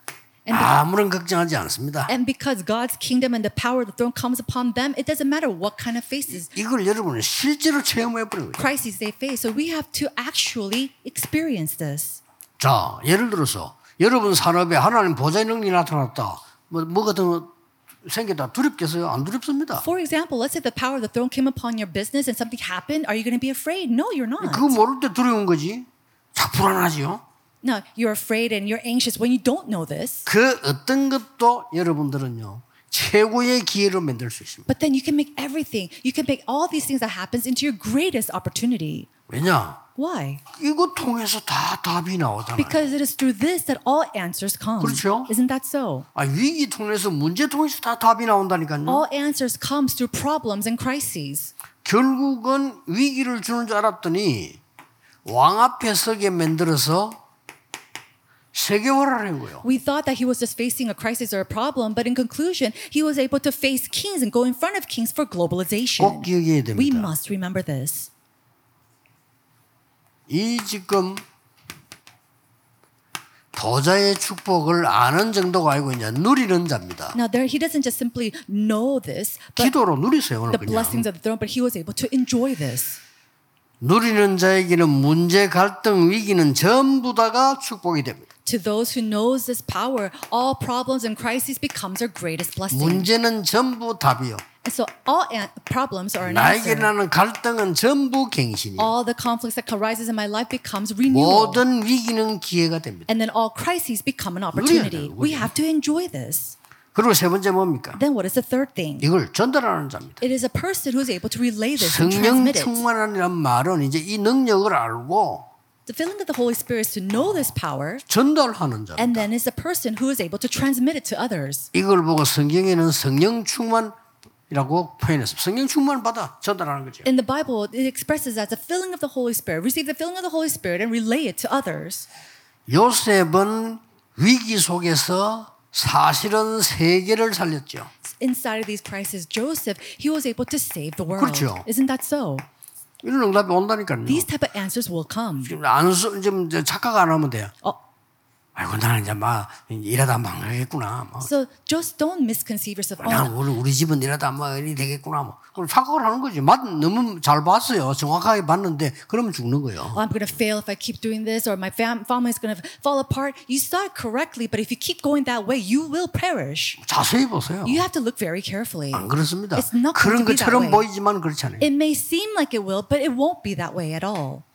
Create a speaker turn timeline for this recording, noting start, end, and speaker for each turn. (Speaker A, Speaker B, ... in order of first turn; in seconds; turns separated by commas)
Speaker A: 0.5-0.7, Speaker B: 0.5-2.1, Speaker A: 2.1-6.5, Speaker B: 6.4-8.6, Speaker A: 8.6-12.2, Speaker B: 12.6-17.5, Speaker B: 18.0-19.9, Speaker A: 19.8-24.8, Speaker B: 24.4-27.2, Speaker A: 27.6-30.3, Speaker B: 30.2-34.7, Speaker A: 34.7-39.1, Speaker B: 39.3-39.8, Speaker A: 40.0-40.4, Speaker B: 40.5-42.9, Speaker A: 42.6-46.1, Speaker B: 44.8-45.3, Speaker B: 46.1-49.0, Speaker A: 48.9-51.5, Speaker B: 51.8-54.6, Speaker B: 55.2-57.2, Speaker B: 58.5-59.6, Speaker A: 59.6-68.1, Speaker B: 66.0-67.1, Speaker B: 70.3-71.2, Speaker B: 73.5-77.2, Speaker A: 77.1-79.7, Speaker B: 79.6-81.1, Speaker A: 80.5-83.0, Speaker B: 83.8-88.2, Speaker A: 88.5-93.1, Speaker B: 92.7-94.4, Speaker A: 94.6-96.9, Speaker B: 96.2-98.9, Speaker A: 98.8-101.6, Speaker B: 101.1-103.1, Speaker A: 103.1-106.5, Speaker B: 104.5-105.5, Speaker B: 106.9-108.0, Speaker A: 107.9-109.0, Speaker B: 109.0-110.2, Speaker A: 110.2-112.8, Speaker B: 111.8-115.5, Speaker A: 115.8-118.0, Speaker B: 118.1-119.3, Speaker A: 119.0-121.7, Speaker B: 121.7-123.9, Speaker B: 124.5-127.1, Speaker A: 127.0-132.1, Speaker B: 132.7-137.9, Speaker A: 138.0-142.4, Speaker B: 141.2-141.7, Speaker B: 143.0-144.3, Speaker A: 144.1-145.5, Speaker B: 145.4-147.5, Speaker B: 148.6-151.3, Speaker A: 151.2-153.3, Speaker B: 153.0-160.0, Speaker A: 159.9-166.8, Speaker B: 166.8-167.8, Speaker A: 167.6-170.8, Speaker B: 168.9-171.7, Speaker A: 171.6-174.4